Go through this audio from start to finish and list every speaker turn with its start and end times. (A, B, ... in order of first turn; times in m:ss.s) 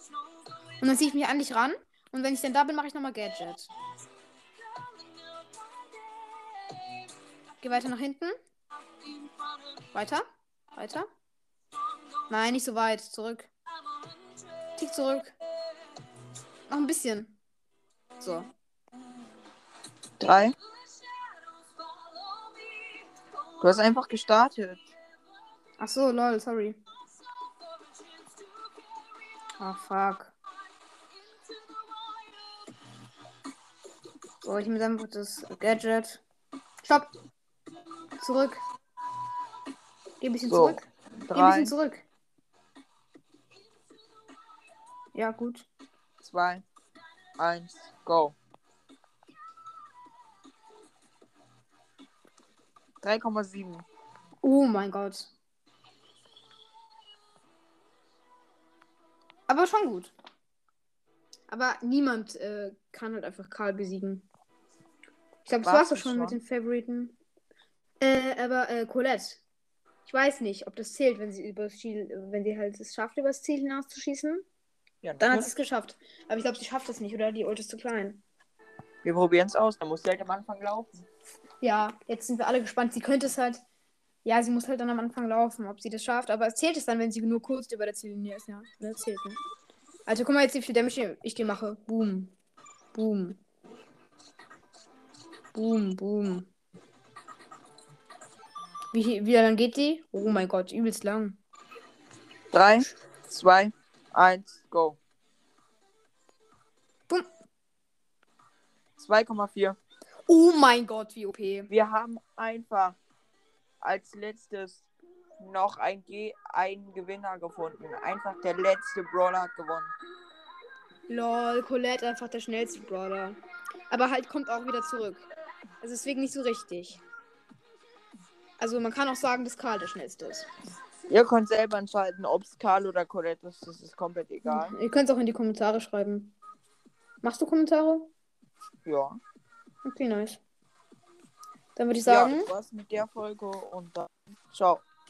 0:00.8-0:03.7 A
0:07.6-0:08.4 A
0:09.9-0:11.1 A
0:12.3-0:13.5 A
0:14.7-0:15.4 A
0:16.7-0:17.4 A
0:18.2-0:18.5 A
0:20.2-0:20.6 B
0:23.6-0:24.9 B
0:25.8-0:26.8 A
0:29.6-0:30.3 A
0:34.4-0:36.2 A
0:36.8-0:37.1 A
0:38.2-0:38.6 A
0:40.2-0:42.0 A
0:40.5-0:41.7 B
0:45.1-0:45.7 A
0:46.2-0:46.6 B
0:47.4-0:48.4 B
0:53.0-0:53.8 B
0:54.4-0:55.3 A
0:59.5-1:00.1 A
1:01.5-1:04.3 A
1:05.4-1:07.1 A
1:05.6-1:06.4 B
1:08.0-1:09.4 A
1:10.0-1:14.4 A
1:15.0-1:15.5 B
1:15.2-1:18.2 A
1:19.0-1:21.0 B
1:21.6-1:23.6 A
1:24.2-1:29.4 A
1:30.1-1:32.3 A
1:32.9-1:33.4 A
1:35.5-1:36.5 A
1:38.9-1:41.4 A
1:42.5-1:45.0 B
1:49.0-1:49.8 B
1:50.3-1:51.7 A
1:51.7-1:53.0 B
1:53.8-1:54.9 B
1:55.4-1:59.9 B
2:01.1-2:03.4 A
2:03.9-2:05.2 A
2:05.8-2:07.0 A
2:08.6-2:10.5 A
2:11.1-2:14.7 B
2:14.4-2:16.3 A
2:17.2-2:18.1 A
2:18.8-2:19.2 B
2:19.8-2:20.4 A
2:21.8-2:22.5 A
2:22.0-2:24.8 B